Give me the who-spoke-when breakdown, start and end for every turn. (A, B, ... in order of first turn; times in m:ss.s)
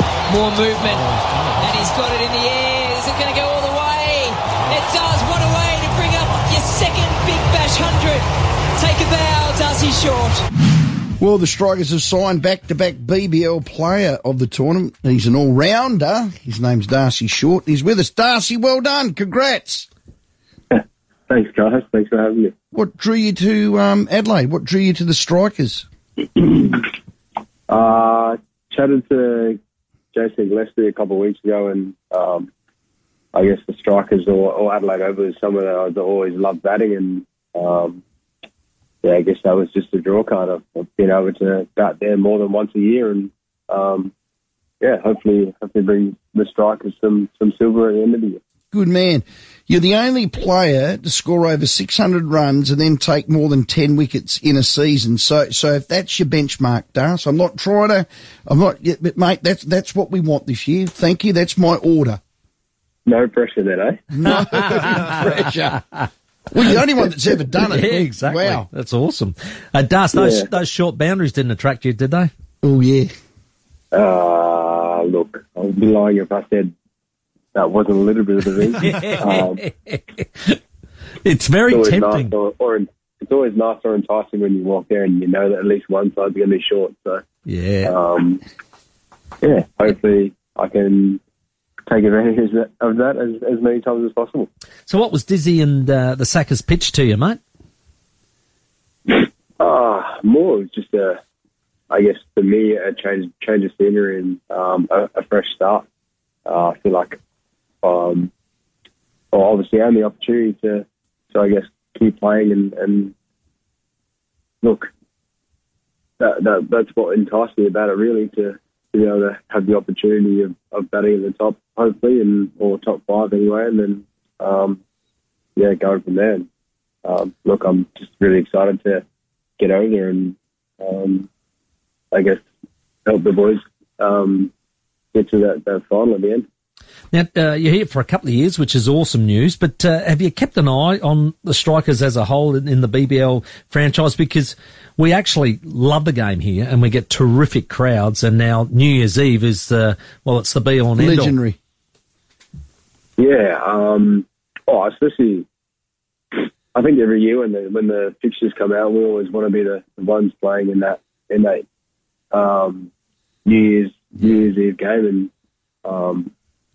0:00.3-0:01.0 A
0:00.8-0:01.9 B
0:01.6-0:10.4 A
0:11.2-0:19.9 C
0:20.7-0:22.5 D
0:22.7-0:25.8 C
0:26.4-0:26.9 D
0:27.7-0:29.6 D
0:30.1-0:32.5 D
0:33.3-0:38.0 D
0:39.0-0:44.1 D
0:44.8-0:48.4 D
0:48.7-1:02.2 C
1:03.0-1:04.0 D
1:04.1-1:05.8 C
1:04.4-1:06.0 B
1:06.5-1:08.7 C
1:07.6-1:12.3 B
1:10.1-1:10.5 D
1:12.6-1:13.1 C
1:13.9-1:16.7 D
1:17.5-1:19.6 D
1:18.8-1:20.6 B
1:21.2-1:22.3 B
1:21.7-1:27.2 D
1:27.4-1:27.9 B
1:27.8-1:28.4 D
1:29.4-1:31.2 D
1:31.9-1:34.5 D
1:34.8-1:37.4 B
1:39.1-1:41.2 D
1:41.9-1:45.8 D
1:46.4-1:47.2 D
1:47.8-1:48.3 D
1:49.3-1:53.1 D
1:54.6-1:54.9 D
1:56.2-2:04.8 D
2:05.6-2:06.5 D
2:07.0-2:09.0 D
2:09.6-2:11.3 D
2:12.1-2:12.4 D
2:13.0-2:14.5 D
2:15.1-2:16.4 D
2:17.1-2:31.3 B
2:31.0-2:31.6 C
2:33.2-2:35.5 D
2:36.3-2:41.6 D
2:42.3-2:42.9 D
2:43.4-2:45.3 D
2:45.8-2:46.3 D